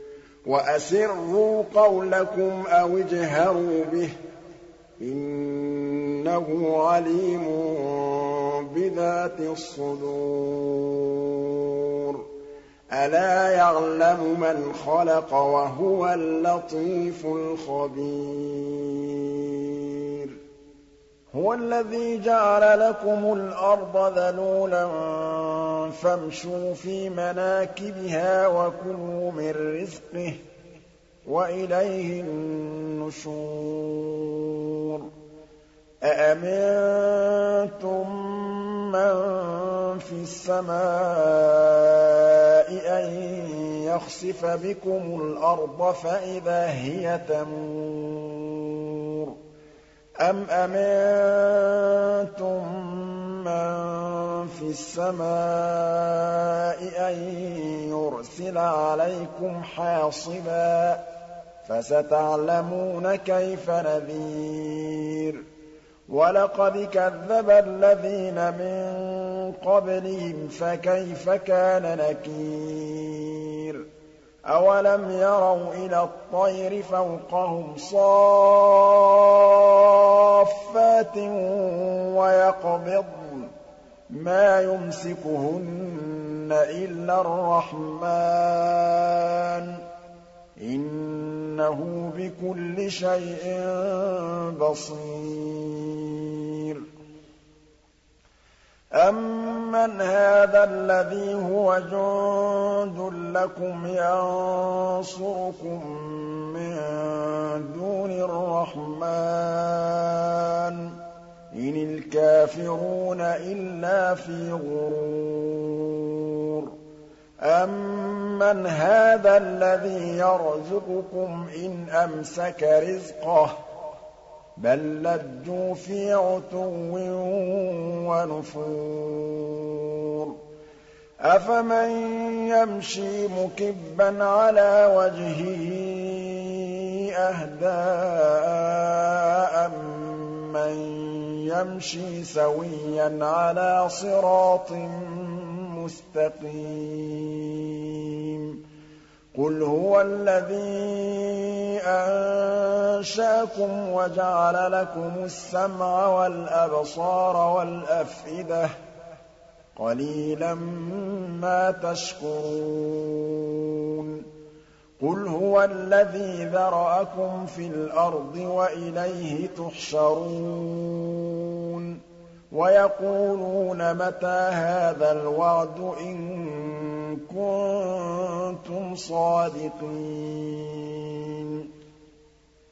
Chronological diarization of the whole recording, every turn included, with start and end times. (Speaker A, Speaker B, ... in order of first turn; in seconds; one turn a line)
Speaker A: 0.5-4.1
Speaker A: 5.0-12.2
Speaker A: 12.9-20.4
Speaker A: 21.3-30.4
Speaker A: 31.3-35.1
Speaker A: 36.0-49.4
Speaker A: 50.2-61.0
Speaker A: 61.6-65.4
Speaker A: 66.1-73.8
Speaker A: 74.5-83.5
Speaker A: 84.1-89.8
Speaker A: 90.6-96.8
Speaker A: 99.0-111.0
Speaker A: 111.5-116.8
Speaker A: 117.4-123.6
Speaker A: 124.6-130.4
Speaker A: 131.2-148.6
Speaker A: 149.3-158.7
Speaker A: 159.8-164.3
Speaker A: 165.0-172.0
Speaker A: 172.5-181.7